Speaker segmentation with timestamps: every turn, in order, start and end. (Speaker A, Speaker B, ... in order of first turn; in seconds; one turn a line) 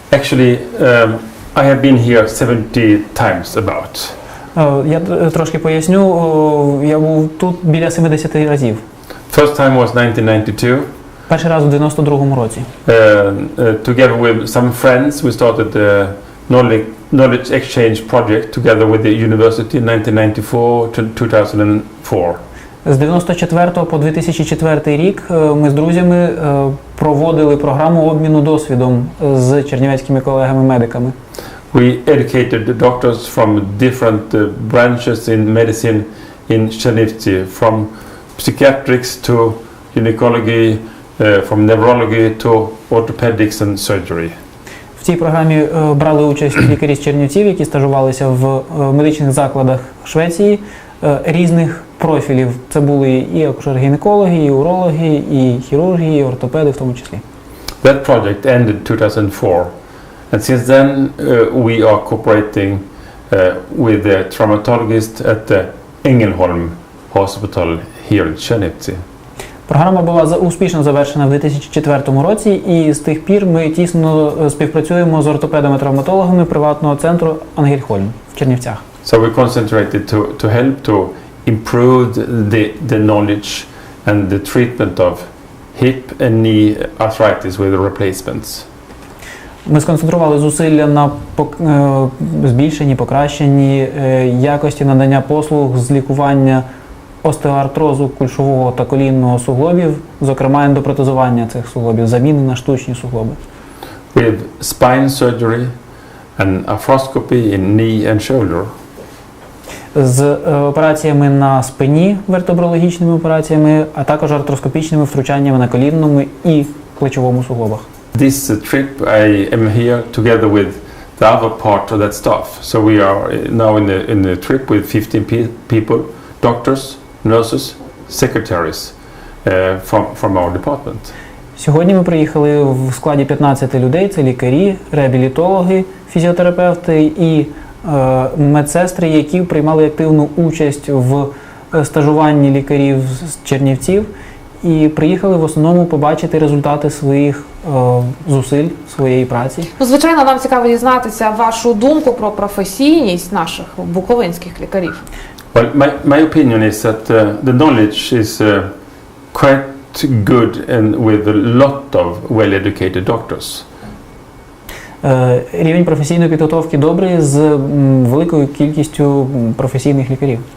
Speaker A: 0.1-4.2
Speaker B: 4.5-8.8
Speaker A: 9.3-10.9
Speaker B: 11.3-12.7
Speaker A: 12.8-22.4
Speaker B: 22.8-31.1
Speaker A: 31.7-44.3
Speaker B: 45.0-57.2
Speaker A: 57.8-59.7
Speaker A: 60.3-69.0
Speaker B: 69.7-78.8
Speaker A: 79.0-88.7
Speaker B: 89.7-96.6
Speaker B: 97.2-103.4
Speaker A: 104.1-105.7
Speaker A: 106.4-108.7
Speaker B: 109.9-117.8
Speaker A: 118.1-131.1
Speaker B: 131.6-144.1
Speaker B: 144.6-149.7
Speaker C: 149.8-155.0
Speaker A: 155.5-158.7
Speaker A: 159.3-163.7
Speaker B: 165.0-170.4